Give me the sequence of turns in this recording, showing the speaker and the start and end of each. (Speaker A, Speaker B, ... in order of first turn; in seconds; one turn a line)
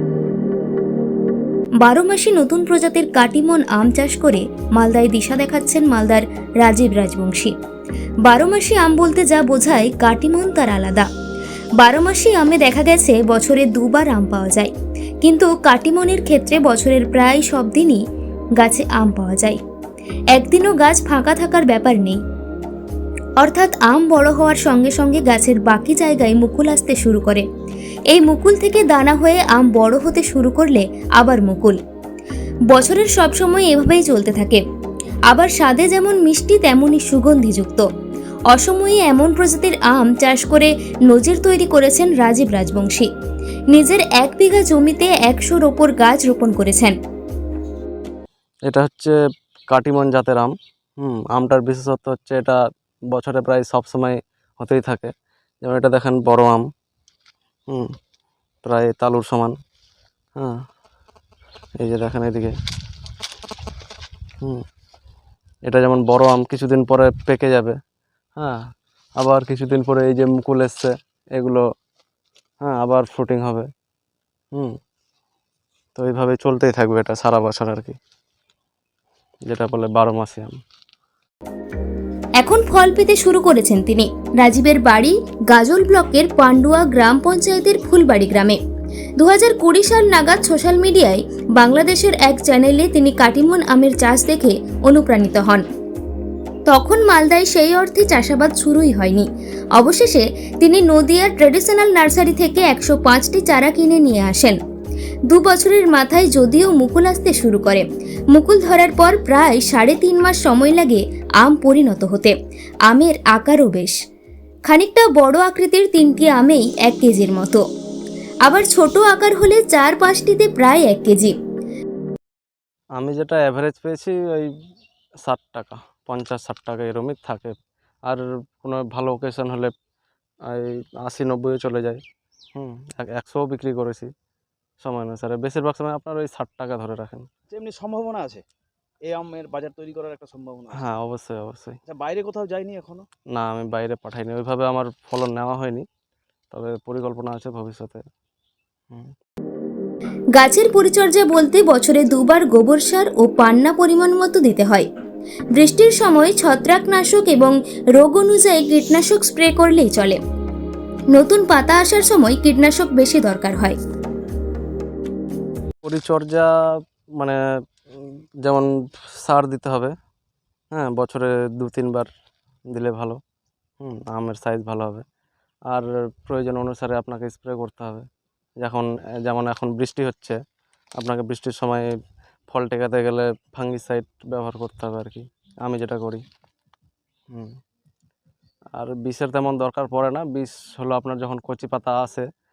Speaker A: 1.8-7.5
Speaker A: 8.3-11.1
Speaker A: 11.8-14.7
Speaker A: 15.2-18.0
Speaker A: 18.6-19.6
Speaker A: 20.4-22.2
Speaker A: 23.4-27.5
Speaker A: 28.1-31.8
Speaker A: 32.7-34.6
Speaker A: 35.3-37.9
Speaker A: 38.5-43.1
Speaker A: 43.7-47.0
Speaker B: 48.7-49.1
Speaker B: 49.7-52.6
Speaker B: 53.1-55.1
Speaker B: 55.6-56.6
Speaker B: 58.6-59.5
Speaker B: 61.8-62.5
Speaker B: 65.7-67.8
Speaker B: 69.2-71.7
Speaker B: 72.6-73.7
Speaker B: 76.0-78.0
Speaker B: 79.5-80.6
Speaker A: 82.4-88.6
Speaker A: 89.2-95.7
Speaker A: 96.7-104.6
Speaker A: 105.3-112.3
Speaker A: 112.9-114.0
Speaker A: 114.7-117.6
Speaker A: 118.5-121.3
Speaker B: 123.0-124.5
Speaker B: 125.2-127.5
Speaker B: 128.1-129.7
Speaker B: 130.5-132.0
Speaker B: 132.6-134.1
Speaker B: 134.8-137.3
Speaker C: 137.5-138.4
Speaker C: 139.1-140.8
Speaker B: 140.8-141.8
Speaker C: 141.9-143.1
Speaker B: 143.3-145.8
Speaker B: 146.5-148.0
Speaker A: 150.4-154.9
Speaker A: 155.6-160.2
Speaker A: 161.1-163.8
Speaker B: 165.8-166.5
Speaker B: 168.0-168.7
Speaker B: 169.2-169.9
Speaker B: 170.7-172.1
Speaker B: 172.7-173.2
Speaker B: 173.8-175.1
Speaker B: 175.7-178.1
Speaker B: 178.6-180.4
Speaker B: 181.0-181.8
Speaker B: 182.5-186.2
Speaker B: 188.8-192.3